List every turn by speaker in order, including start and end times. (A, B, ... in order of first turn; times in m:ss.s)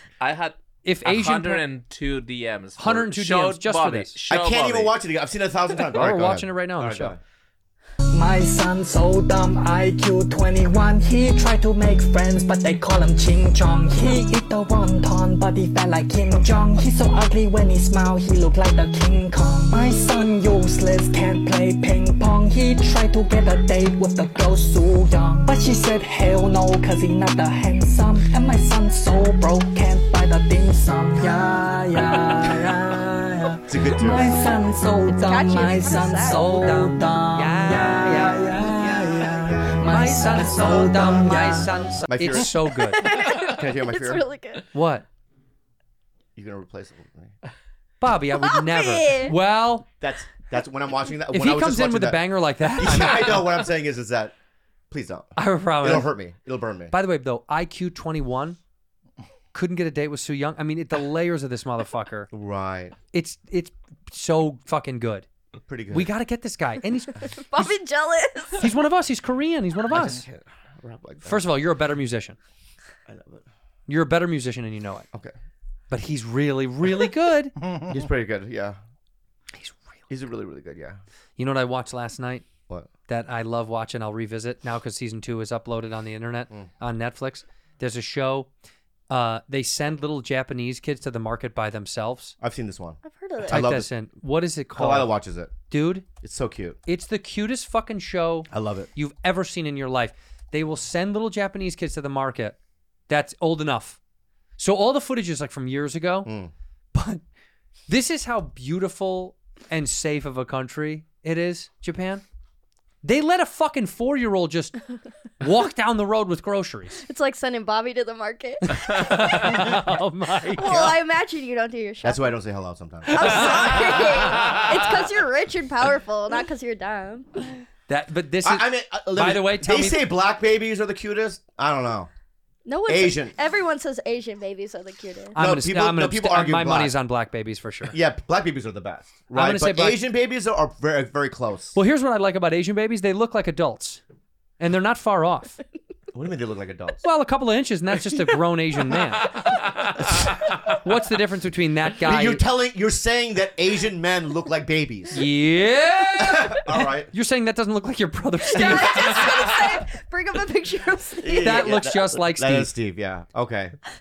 0:00.2-0:04.9 A
0:00.8-0:01.6 B
0:02.8-0:04.2 B
0:04.3-0:07.2 C
0:05.9-0:07.2 B
0:08.1-0:41.7 D
0:33.7-0:34.3 C
0:35.0-0:36.6 E
0:36.2-0:39.0 B
0:38.8-0:39.8 C
0:39.8-0:43.0 B
0:42.1-0:44.2 C
0:42.9-0:44.6 E
0:44.7-0:45.0 B
0:46.4-0:47.3 C
0:48.0-0:49.8 B
0:48.4-0:49.3 E
0:50.0-0:54.3 C
0:51.3-0:53.5 B
0:54.9-0:56.9 C
0:55.4-0:56.1 B
0:56.9-0:58.6 B
0:59.5-1:02.3 B
1:02.3-1:03.0 C
1:03.1-1:05.2 B
1:05.7-1:06.1 C
1:05.9-1:07.7 B
1:07.2-1:08.7 E
1:08.5-1:10.2 B
1:09.9-1:11.5 C
1:11.2-1:12.4 B
1:13.1-1:13.4 C
1:13.9-1:15.1 B
1:15.9-1:17.5 B
1:17.8-1:18.8 C
1:20.1-1:21.0 C
1:21.4-1:22.4 B
1:23.1-1:28.5 B
1:29.1-1:32.3 B
1:32.4-1:33.9 C
1:33.0-1:33.6 E
1:33.5-1:35.1 B
1:34.7-1:35.5 C
1:35.7-1:36.0 B
1:36.2-1:36.8 C
1:36.8-1:42.6 B
1:38.5-1:38.9 C
1:43.1-1:44.0 B
1:44.6-1:46.3 B
1:46.2-1:46.5 C
1:46.9-1:47.2 B
1:47.9-1:52.2 B
1:53.0-1:54.8 B
1:55.4-1:57.0 B
1:57.1-1:59.5 E
1:58.7-2:00.8 B
2:00.5-2:02.3 E
2:00.6-2:00.9 C
2:02.0-2:04.4 C
2:03.1-2:07.6 E
2:07.9-2:10.0 B
2:08.4-2:12.1 C
2:12.6-2:15.4 E
2:12.8-2:13.3 C
2:15.3-2:17.9 B
2:15.4-2:16.9 C
2:17.9-2:21.8 C
2:19.3-2:20.0 B
2:21.7-2:24.0 B
2:24.6-2:25.6 B
2:26.1-2:27.0 C
2:27.0-2:29.3 B
2:30.0-2:30.4 C
2:30.8-2:32.4 B
2:32.0-2:35.2 C
2:35.1-2:39.2 B
2:36.2-2:37.1 C
2:38.5-2:41.6 E
2:41.2-2:43.8 C
2:41.4-2:42.7 B